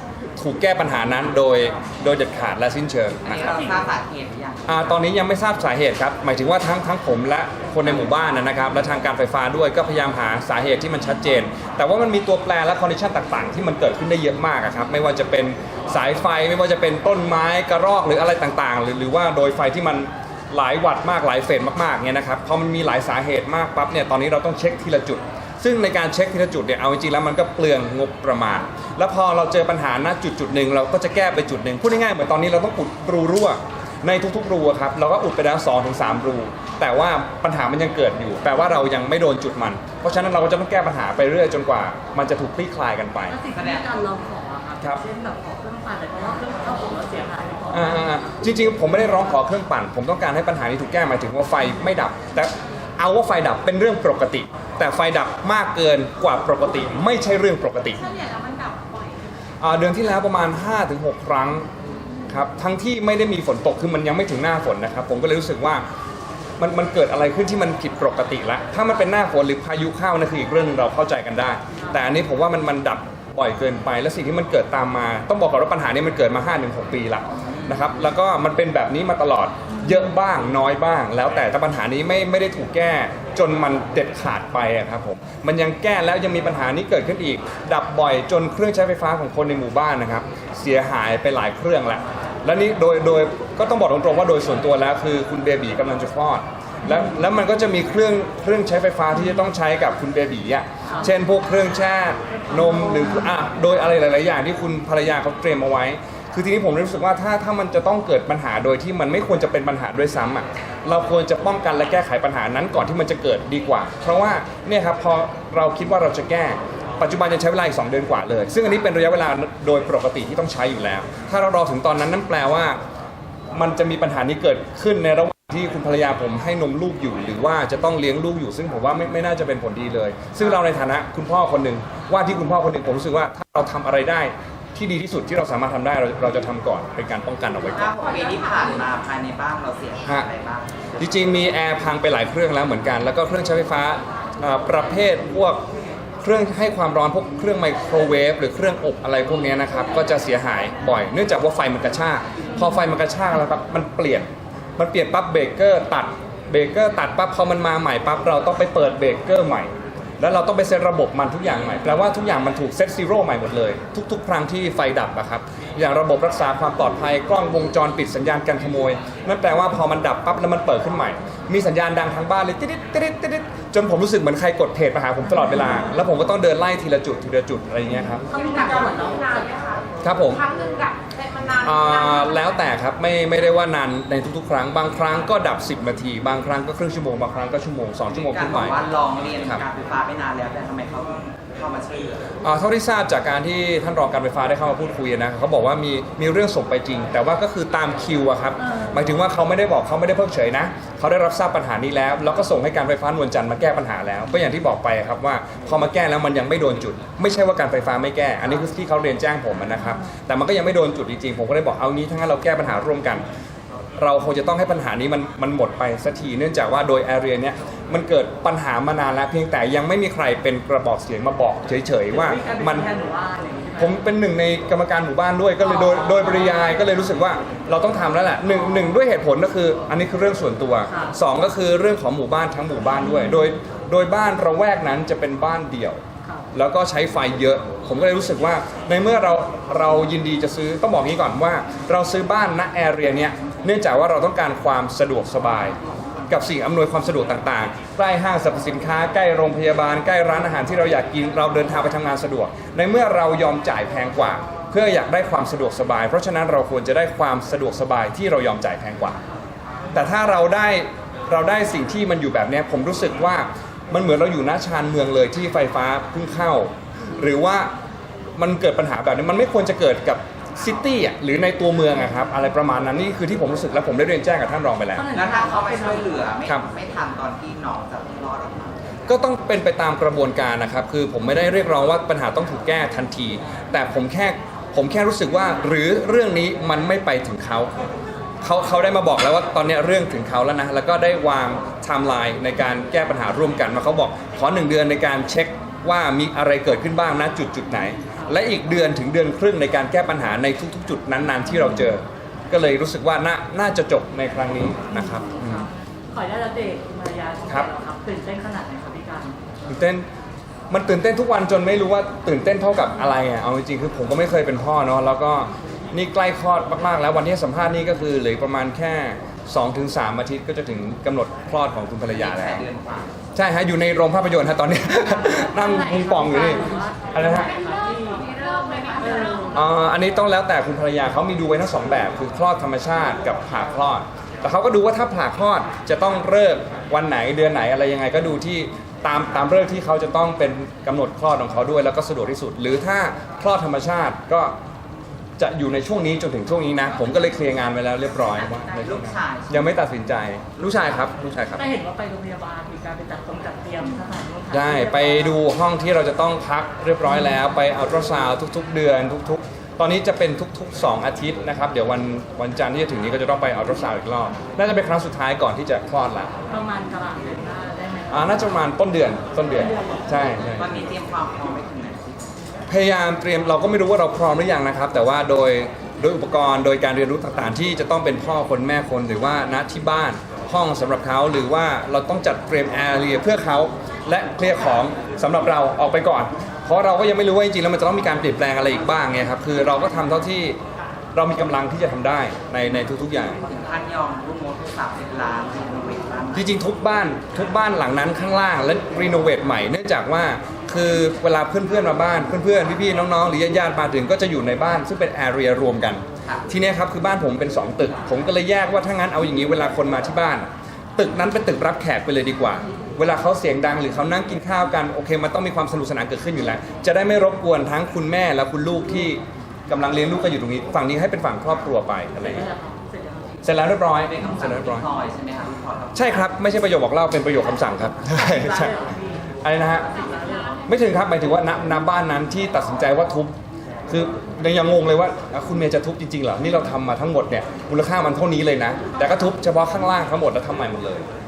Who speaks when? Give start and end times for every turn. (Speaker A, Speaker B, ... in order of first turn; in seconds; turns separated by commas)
Speaker A: 0.4-3.5, Speaker B: 3.2-4.9, Speaker A: 4.7-43.4, Speaker C: 43.3-48.2, Speaker B: 43.5-43.9, Speaker A: 47.7-58.1, Speaker D: 58.1-59.2, Speaker A: 59.6-61.7, Speaker A: 62.3-65.8, Speaker A: 66.6-122.8, Speaker B: 77.5-77.9, Speaker C: 102.4-103.0, Speaker A: 123.5-138.1, Speaker B: 137.7-140.9, Speaker A: 141.0-145.6, Speaker A: 146.2-178.2, Speaker C: 178.2-179.6, Speaker D: 178.3-179.8, Speaker A: 180.0-180.4, Speaker D: 180.4-182.3, Speaker A: 181.6-188.8, Speaker B: 188.1-192.3, Speaker A: 192.4-213.2, Speaker A: 214.0-222.9, Speaker C: 222.1-223.9, Speaker A: 223.8-236.0, Speaker C: 230.9-231.1, Speaker A: 236.5-245.8, Speaker A: 246.3-259.2, Speaker A: 259.9-267.7, Speaker A: 268.4-275.1, Speaker C: 274.9-276.2, Speaker B: 275.1-278.9, Speaker A: 279.1-287.7, Speaker A: 288.4-305.7, Speaker C: 305.0-309.4, Speaker A: 309.7-310.1, Speaker A: 310.7-322.6, Speaker B: 322.1-323.1, Speaker A: 323.3-327.5, Speaker C: 325.2-328.4, Speaker D: 328.4-329.0, Speaker C: 328.9-329.6, Speaker A: 329.5-344.5, Speaker A: 345.4-351.6, Speaker B: 348.4-349.8, Speaker C: 351.6-355.4, Speaker A: 354.5-366.3, Speaker C: 366.5-368.6, Speaker A: 368.1-370.8, Speaker C: 369.5-370.4, Speaker B: 370.4-372.3, Speaker A: 372.7-390.6, Speaker A: 391.1-393.4, Speaker B: 393.4-396.5, Speaker A: 396.3-422.5, Speaker C: 422.2-423.4, Speaker A: 423.4-424.9, Speaker B: 423.9-426.2, Speaker A: 425.9-428.8, Speaker C: 428.1-430.6, Speaker A: 429.4-429.9, Speaker A: 430.7-433.3, Speaker A: 433.9-441.0